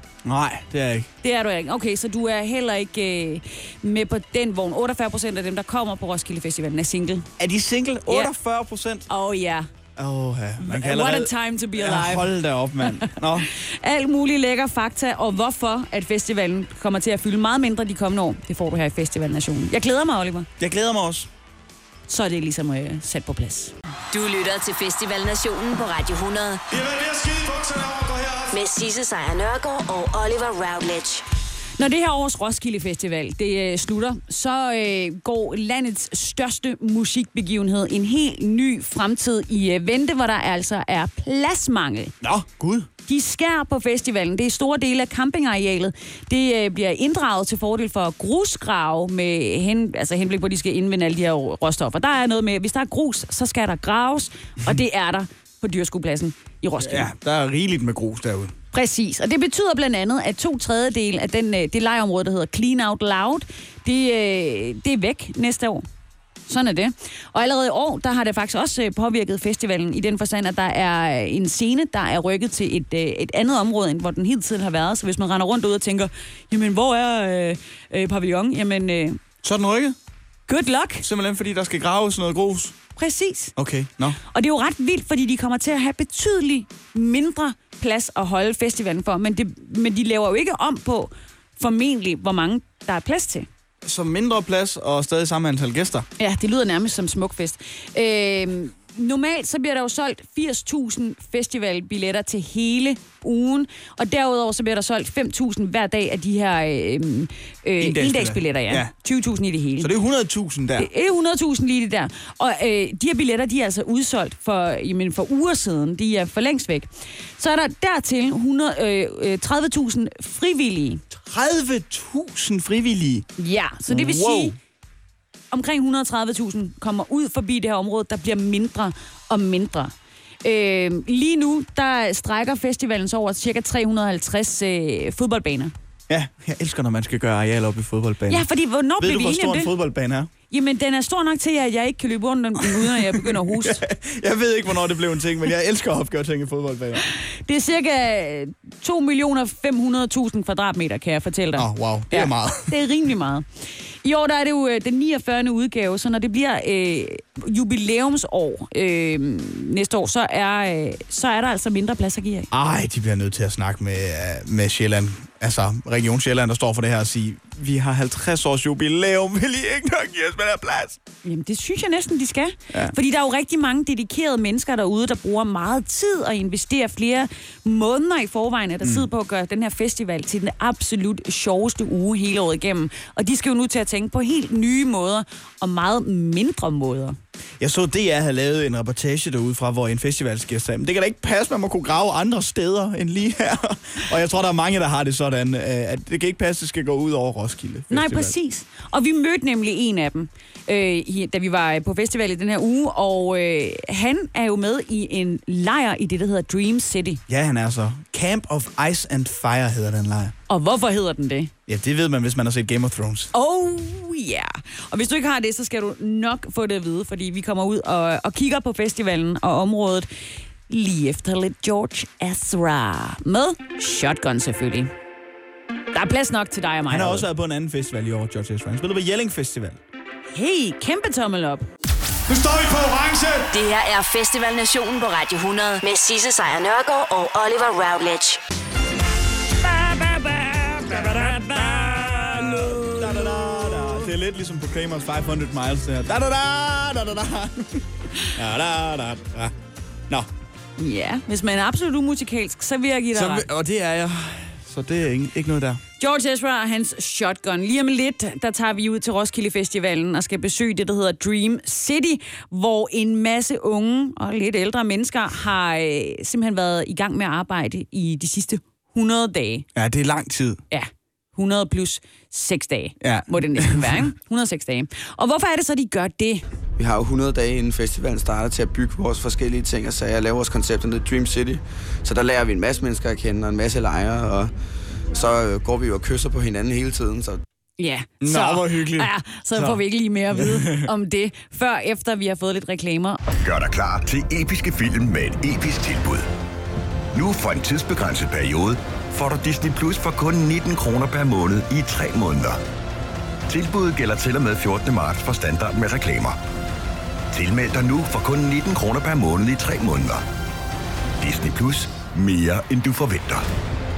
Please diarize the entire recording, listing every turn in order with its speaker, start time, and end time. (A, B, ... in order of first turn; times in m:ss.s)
0:00.2-0:01.1 A
0:01.2-0:07.3 B
0:07.4-0:09.0 A
0:09.1-0:09.7 B
0:10.0-0:13.5 A
0:10.6-0:20.5 B
0:20.6-0:21.3 A
0:22.1-0:23.7 B
0:24.1-0:26.6 C
0:26.8-0:28.4 D
0:28.5-0:31.2 C
0:31.8-0:42.1 B
0:42.2-0:42.9 A
0:43.1-0:57.1 B
0:56.8-0:58.5 A
0:58.7-1:05.8 B
1:06.5-1:19.2 B
1:19.4-1:20.0 A
1:20.5-1:21.0 B
1:21.0-1:22.8 A
1:23.0-1:23.5 B
1:23.6-1:24.2 A
1:24.3-1:33.5 B
1:33.8-1:36.0 A
1:36.2-1:49.9 B
1:47.8-1:48.9 A
1:49.8-1:50.9 A
1:50.8-2:01.0 B
2:01.1-2:03.2 A
2:03.4-2:04.6 B
2:03.9-2:04.6 A
2:05.5-2:09.9 B
2:10.4-2:15.7 B
2:16.1-2:18.4 A
2:18.3-2:19.7 B
2:19.0-2:20.3 A
2:20.5-2:23.8 B
2:22.6-2:27.0 A
2:27.0-2:33.4 B
2:31.6-2:32.7 A
2:34.0-2:42.5 B
2:42.5-2:51.0 A
2:51.2-3:07.2 B
2:58.8-2:59.1 A
3:07.6-3:18.3 A
3:17.9-3:27.2 B
3:27.3-3:30.3 A
3:30.5-3:31.5 B
3:31.7-3:33.3 A
3:33.3-3:40.1 B
3:40.7-3:44.9 B
3:45.9-3:47.3 B
3:46.9-3:49.8 A
3:50.3-3:51.7 B
3:52.3-3:53.3 D
3:53.5-3:58.4 C
3:59.8-4:07.8 A
4:00.0-4:03.0 B
4:08.3-4:09.5 A
4:10.8-4:13.4 B
4:13.1-4:15.8 A
4:16.0-4:29.6 B
4:29.7-4:30.6 A
4:30.7-4:36.4 B
4:33.0-4:34.1 A
4:36.8-4:44.5 E
4:45.1-4:47.4 E
4:47.8-4:53.2 B
4:48.2-4:49.8 A
4:50.3-4:50.9 A
4:53.4-4:56.3 F
4:57.1-5:02.6 F
5:03.5-5:06.4 F
5:07.3-5:10.2 F
5:11.2-5:13.4 F